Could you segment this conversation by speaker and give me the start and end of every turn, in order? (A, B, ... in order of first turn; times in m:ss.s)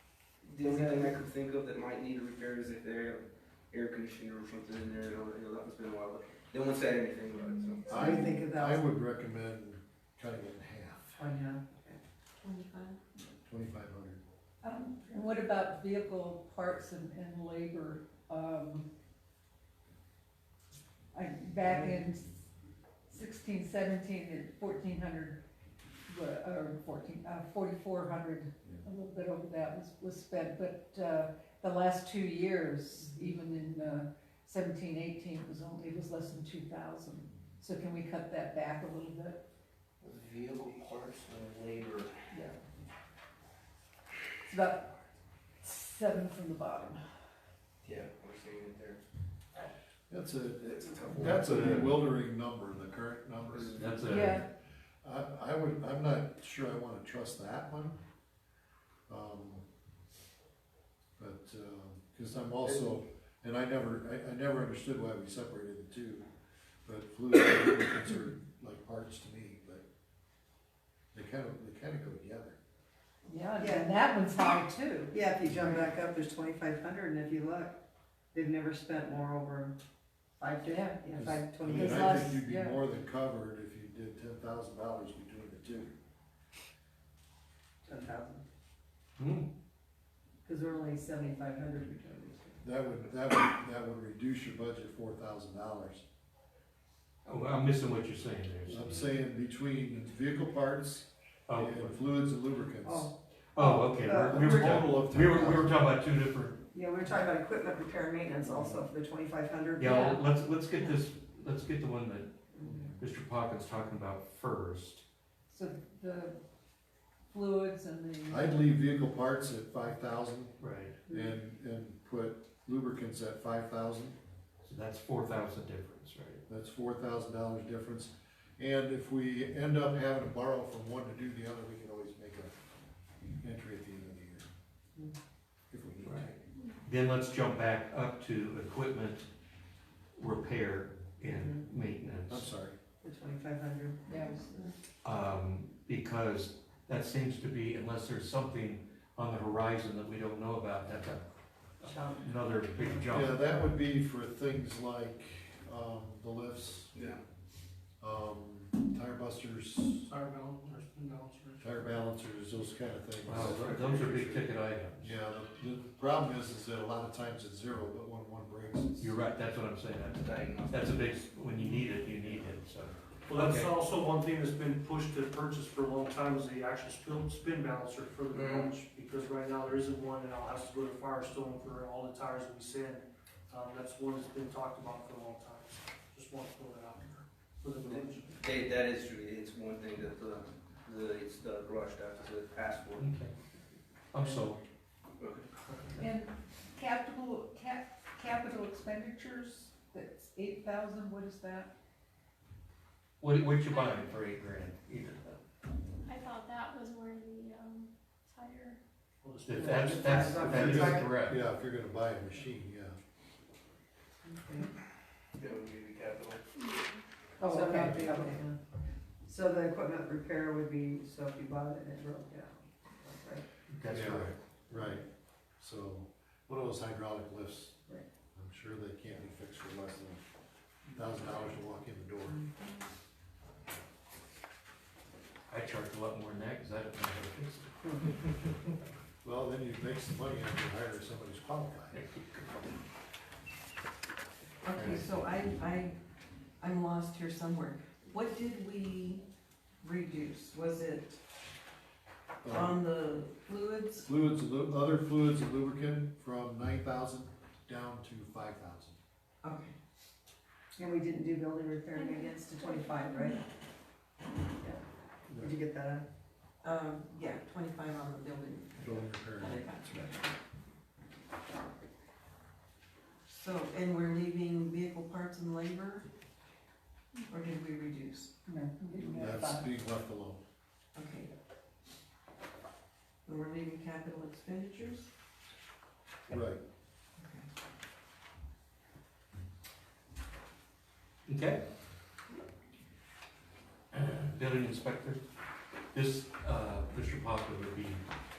0:00.4-0:07.9 A
0:00.6-0:01.1 B
0:07.9-0:11.2 C
0:07.9-0:08.8 B
0:11.2-0:12.0 B
0:12.4-0:13.0 D
0:13.5-0:14.2 C
0:14.6-0:18.8 E
0:21.1-0:22.4 E
0:23.1-0:25.4 E
0:26.1-0:39.4 E
0:40.0-0:42.1 A
0:44.5-0:44.9 E
0:45.6-0:47.0 E
0:47.8-0:49.0 A
0:50.1-0:54.0 C
0:50.7-0:51.9 A
0:51.2-0:51.9 F
0:53.5-0:54.3 A
0:53.8-0:54.4 F
0:54.1-0:54.4 E
0:55.0-0:58.0 C
0:59.1-0:59.6 C
1:01.2-1:06.2 C
1:02.6-1:02.9 A
1:06.9-1:09.8 C
1:11.1-1:12.6 C
1:13.3-1:15.9 E
1:13.6-1:13.9 B
1:15.1-1:17.8 B
1:18.3-1:19.8 B
1:20.4-1:22.3 B
1:20.7-1:21.1 E
1:21.2-1:25.9 C
1:21.8-1:22.8 E
1:27.8-1:28.4 B
1:29.2-1:29.5 F
1:30.4-1:32.7 B
1:32.6-1:36.0 C
1:37.2-1:39.2 F
1:38.7-1:43.1 C
1:41.5-1:42.0 F
1:42.8-1:44.8 B
1:43.6-1:46.6 F
1:44.1-1:45.8 C
1:46.7-1:50.2 B
1:48.4-1:48.8 C
1:49.8-1:52.3 F
1:52.6-1:52.8 B
1:52.6-1:53.0 C
1:53.0-1:55.0 F
1:55.5-1:56.4 E
1:57.3-1:58.5 E
1:58.3-2:00.6 C
2:00.6-2:01.0 F
2:01.1-2:04.2 C
2:04.6-2:06.4 F
2:06.5-2:12.6 C
2:13.4-2:14.5 C
2:15.7-2:16.4 C
2:16.0-2:16.3 F
2:16.8-2:19.3 F
2:20.2-2:22.5 F
2:21.2-2:21.6 B
2:22.3-2:22.8 C
2:23.0-2:24.8 B
2:24.1-2:24.4 E
2:25.0-2:31.2 F
2:31.8-2:33.4 F
2:31.8-2:33.0 B
2:33.1-2:37.0 C
2:36.9-2:37.2 A
2:38.0-2:40.1 C
2:40.1-2:41.6 G
2:41.6-2:43.7 C
2:43.2-2:45.2 F
2:43.4-2:44.5 A
2:45.0-2:49.1 C
2:49.0-2:53.7 F
2:50.2-2:51.2 A
2:51.6-2:51.9 G
2:53.3-3:08.4 G
2:58.3-2:58.7 A
3:07.8-3:13.1 A
3:13.0-3:13.3 F
3:14.1-3:14.6 F
3:15.2-3:15.5 A
3:16.0-3:21.7 E
3:23.2-3:25.4 F
3:23.6-3:24.1 H
3:26.1-3:28.8 H
3:29.2-3:31.0 G
3:29.4-3:31.4 F
3:29.5-3:31.1 B
3:30.6-3:33.0 C
3:34.2-3:34.7 B
3:35.4-3:36.4 A
3:36.6-3:37.0 H
3:37.4-3:38.4 E
3:37.4-3:38.6 B
3:39.2-3:43.5 B
3:43.7-3:44.4 F
3:43.9-3:45.0 C
3:45.6-3:47.8 C
3:48.4-3:50.2 C
3:50.9-3:52.4 C
3:52.3-3:52.7 B
3:55.5-3:58.5 F
3:59.2-4:02.0 C
4:01.9-4:02.8 F
4:04.7-4:06.0 D
4:04.7-4:05.1 F
4:06.6-4:09.2 D
4:09.8-4:11.2 D
4:12.4-4:12.8 C
4:12.5-4:14.1 D
4:14.0-4:19.0 C
4:19.4-4:19.7 D
4:20.8-4:23.4 B
4:21.9-4:23.1 H
4:25.4-4:26.0 B
4:26.6-4:30.3 D
4:28.8-4:29.6 C
4:33.3-4:36.1 D
4:37.3-4:38.3 D
4:38.5-4:39.5 E
4:39.0-4:40.4 C
4:41.0-4:41.3 D
4:43.3-4:45.1 D
4:46.3-4:46.6 C
4:47.2-4:47.5 D
4:51.3-4:51.6 F
4:53.9-4:55.2 F
4:55.9-4:58.0 F